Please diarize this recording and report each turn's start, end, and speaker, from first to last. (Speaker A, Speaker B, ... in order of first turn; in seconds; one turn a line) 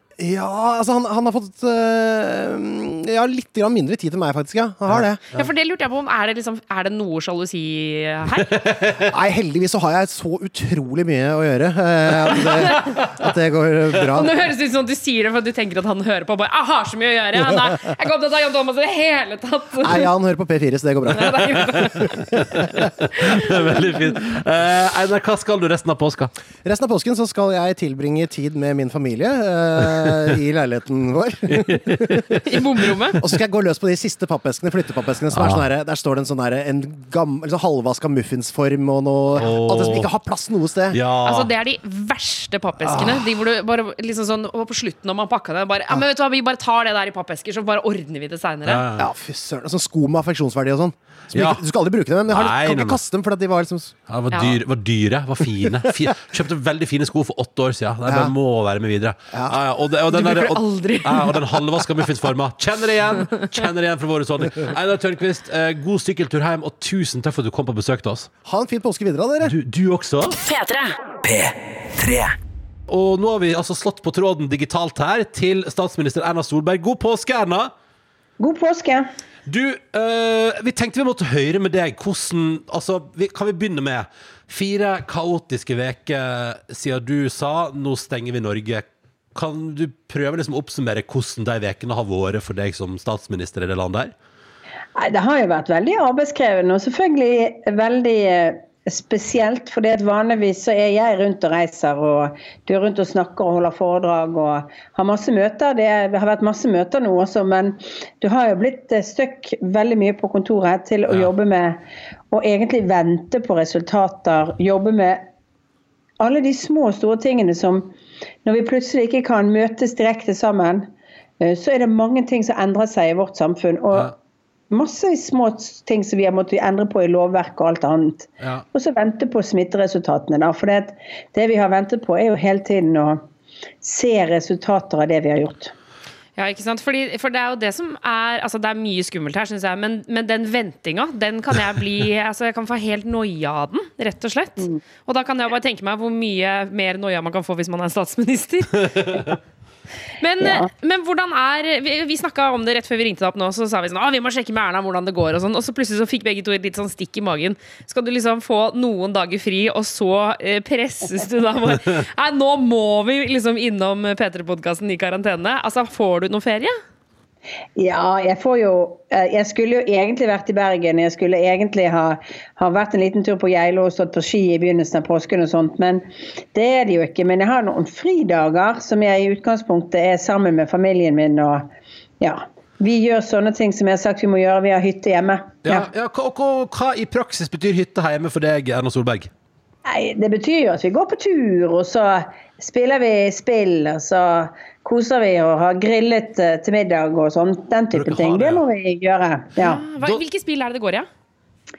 Speaker A: 0.2-5.2
Speaker B: 4.9-5.5
Speaker C: 5.3-8.6
Speaker B: 8.4-9.1
Speaker A: 9.0-14.3
Speaker B: 12.8-13.1
Speaker C: 14.1-20.1
Speaker A: 17.4-17.7
Speaker A: 19.8-21.9
Speaker C: 21.1-24.0
Speaker B: 22.3-22.6
Speaker A: 22.5-22.9
Speaker B: 23.2-26.3
Speaker A: 26.6-32.4
Speaker B: 31.5-32.4
Speaker C: 32.4-33.2
Speaker A: 33.2-41.0
Speaker B: 35.3-35.6
Speaker B: 39.4-40.1
Speaker B: 40.9-41.5
Speaker C: 41.2-48.8
Speaker A: 42.9-43.2
Speaker B: 48.6-49.1
Speaker A: 49.0-53.9
Speaker B: 51.3-51.6
Speaker B: 52.3-53.0
Speaker B: 54.1-68.3
Speaker C: 54.3-54.6
Speaker A: 58.0-58.3
Speaker A: 59.3-59.6
Speaker C: 60.1-61.8
Speaker A: 68.4-69.5
Speaker B: 69.4-70.3
Speaker D: 70.4-72.3
Speaker B: 72.9-77.7
Speaker E: 78.4-79.1
Speaker B: 79.5-94.1
Speaker E: 95.0-115.2
Speaker E: 116.2-124.1
Speaker E: 124.7-133.2
Speaker E: 133.8-135.7
Speaker C: 136.4-149.4
Speaker C: 150.2-166.8
Speaker E: 150.4-150.7
Speaker E: 167.8-181.7
Speaker E: 182.2-185.8
Speaker B: 185.6-189.3
Speaker E: 189.8-199.8
Speaker B: 197.9-198.6
Speaker C: 199.6-201.1